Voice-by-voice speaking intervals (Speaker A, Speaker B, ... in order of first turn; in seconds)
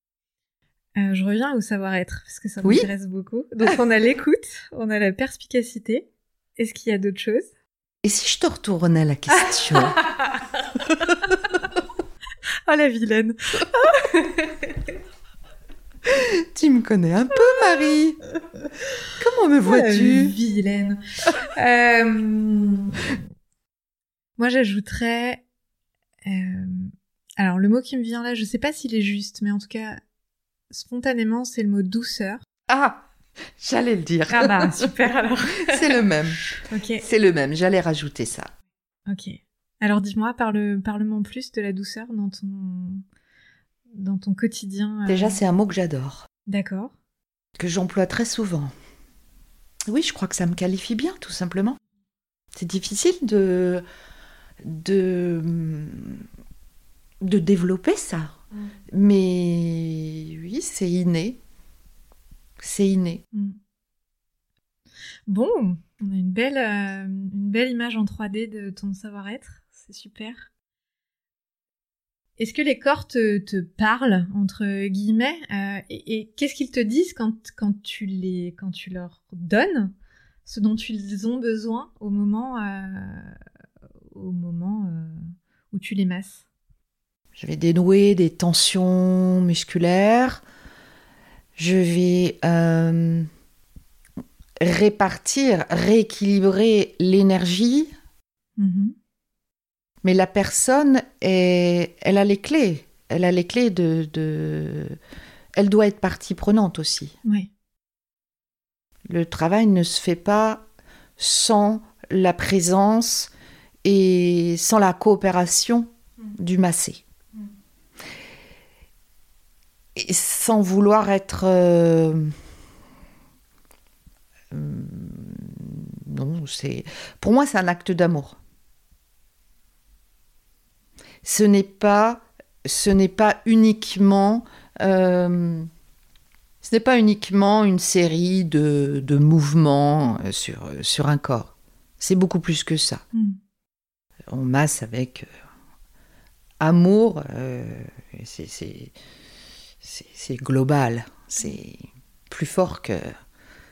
Speaker A: 0.9-6.0, 6.6-7.5, 9.3-11.3, 12.7-14.9, 19.6-23.1, 24.4-25.4, 26.2-30.0, 30.7-32.4, 34.3-36.0, 36.6-37.0, 39.1-43.0, 43.9-45.4, 46.5-46.9, 65.3-70.5, 72.4-79.9, 80.5-83.4, 84.1-86.4, 98.6-98.9, 107.2-107.5, 143.1-143.4
Speaker B: 2.6-2.9, 8.0-10.0, 16.0-18.2, 19.2-20.3, 32.7-33.0, 33.6-34.9, 35.6-36.4, 37.0-38.5, 45.1-46.2, 47.6-48.7, 49.9-51.8, 52.5-53.8, 54.6-56.2, 57.2-58.4, 58.9-61.4, 62.6-63.2, 87.3-90.4, 91.5-93.3, 94.6-97.9, 100.0-105.0, 105.5-107.2, 109.0-110.6, 111.2-113.3, 113.8-117.0, 119.9-122.3, 124.5-128.4, 131.2-135.7, 136.6-143.0, 144.3-145.3, 146.6-148.9, 149.8-153.1